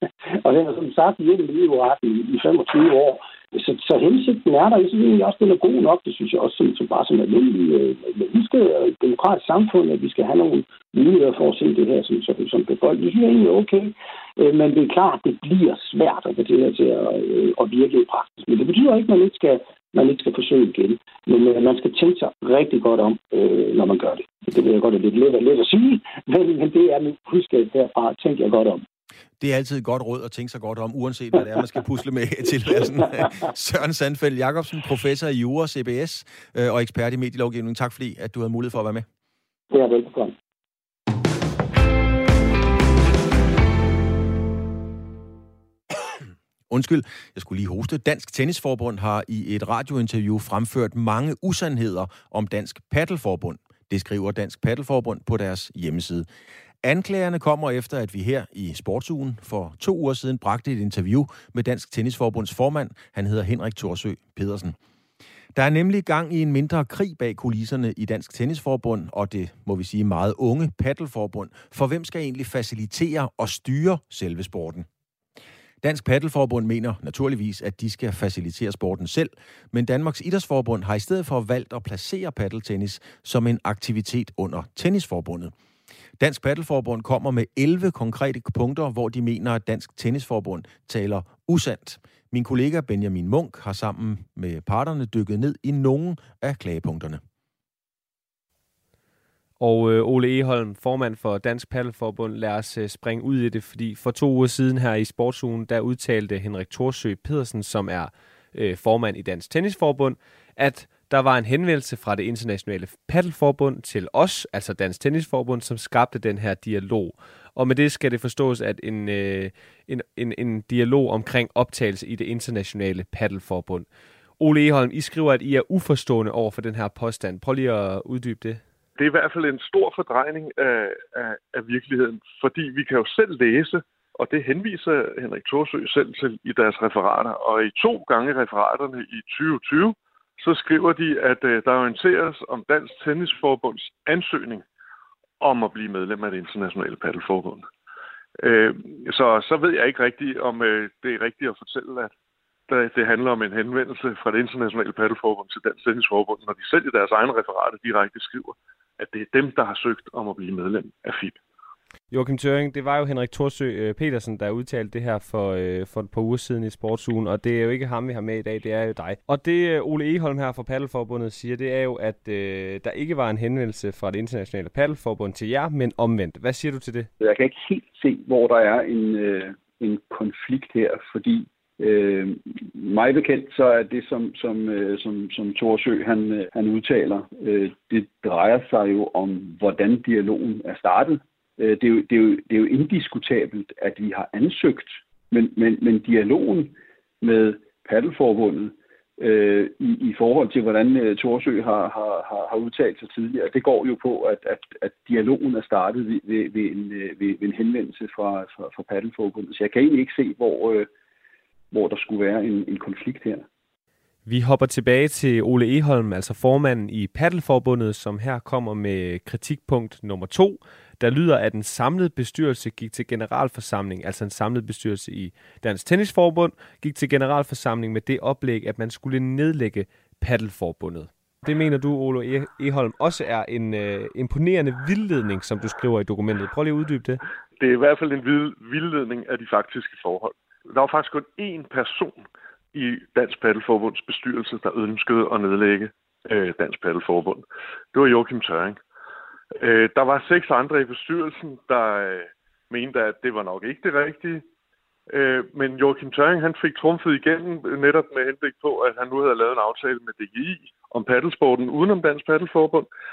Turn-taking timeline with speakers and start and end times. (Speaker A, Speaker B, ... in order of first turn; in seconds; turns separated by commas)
Speaker A: 0.4-28.8, Speaker B: 29.4-39.1, Speaker A: 39.7-40.4, Speaker B: 46.7-56.3, Speaker B: 56.8-64.8, Speaker B: 65.5-74.9, Speaker B: 75.8-85.5, Speaker B: 86.2-97.2, Speaker C: 99.6-128.6, Speaker D: 129.0-144.6, Speaker D: 145.4-147.7, Speaker D: 148.4-152.1, Speaker D: 152.7-161.4, Speaker C: 162.1-177.1, Speaker E: 177.2-210.9, Speaker E: 211.7-213.5, Speaker C: 214.3-237.2, Speaker D: 237.6-248.8, Speaker D: 249.6-254.4, Speaker D: 255.1-262.9